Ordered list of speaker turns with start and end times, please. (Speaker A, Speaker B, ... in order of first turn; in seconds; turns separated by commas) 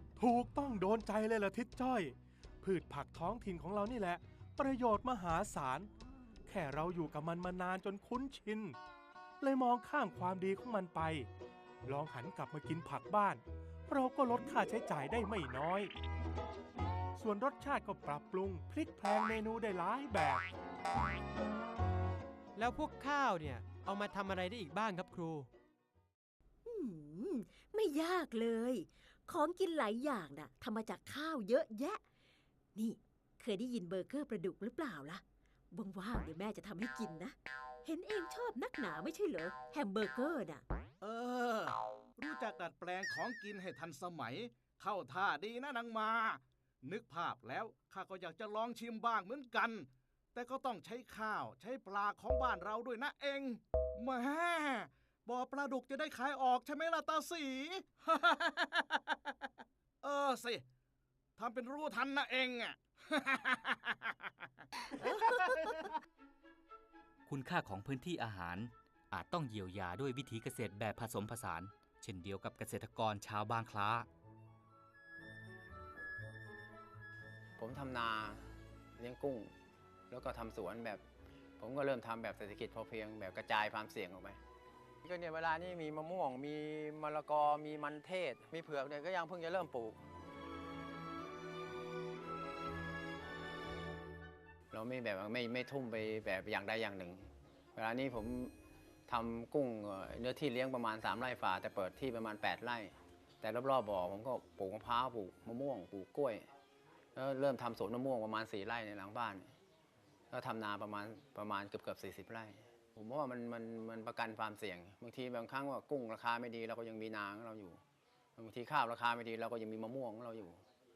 Speaker A: 0.2-5.9, Speaker A: 6.5-8.8, Speaker A: 9.4-11.3, Speaker A: 11.8-15.9, Speaker A: 17.2-20.4, Speaker B: 22.6-25.5, Speaker C: 26.6-32.0, Speaker C: 32.8-40.6, Speaker D: 41.0-59.1, Speaker D: 60.0-60.6, Speaker D: 61.4-64.3, Speaker D: 65.0-65.5, Speaker E: 67.3-74.1, Speaker F: 77.6-79.5, Speaker F: 80.1-81.0, Speaker F: 81.6-84.4, Speaker F: 85.0-90.0, Speaker F: 94.7-98.5, Speaker F: 99.1-106.5, Speaker F: 107.1-109.5, Speaker F: 110.3-117.8, Speaker F: 118.4-120.6